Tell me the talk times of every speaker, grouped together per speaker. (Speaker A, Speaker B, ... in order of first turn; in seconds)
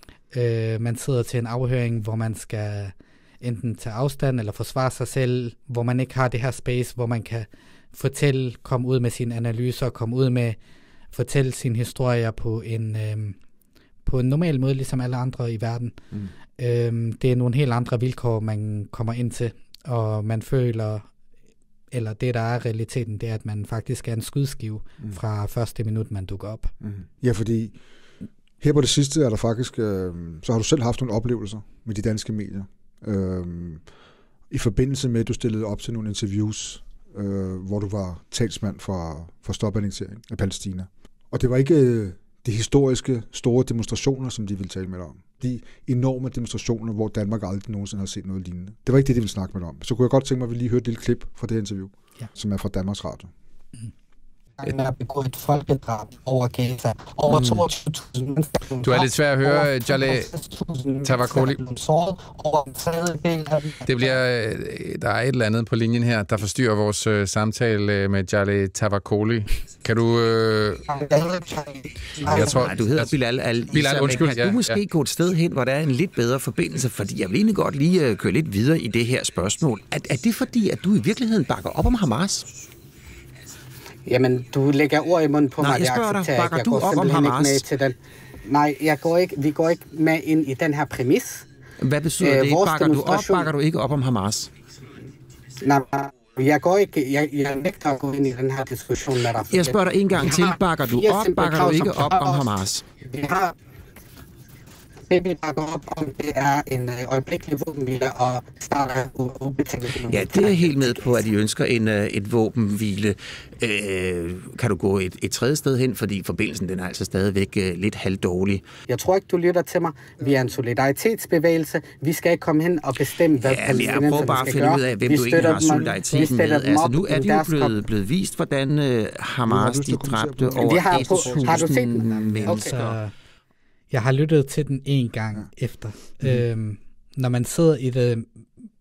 Speaker A: 0.3-10.6, 11.1-13.4, 14.0-16.0, 16.6-21.1, 21.9-26.7, 132.4-133.1, 133.9-138.4
Speaker B: 26.9-27.7, 28.6-33.8, 34.5-53.3, 125.3-126.0, 129.5-131.8
Speaker C: 54.6-64.1, 70.9-72.7, 84.0-91.4, 92.2-93.5, 95.6-102.5, 103.0-103.5, 105.1-111.2, 118.9-127.8, 130.5-132.8
Speaker D: 58.8-60.3, 61.0-61.6, 63.9-70.8, 72.2-73.1, 73.7-74.8
Speaker E: 72.3-82.5, 85.6-87.6, 91.8-94.5, 99.4-102.8, 110.0-118.6, 123.4-132.9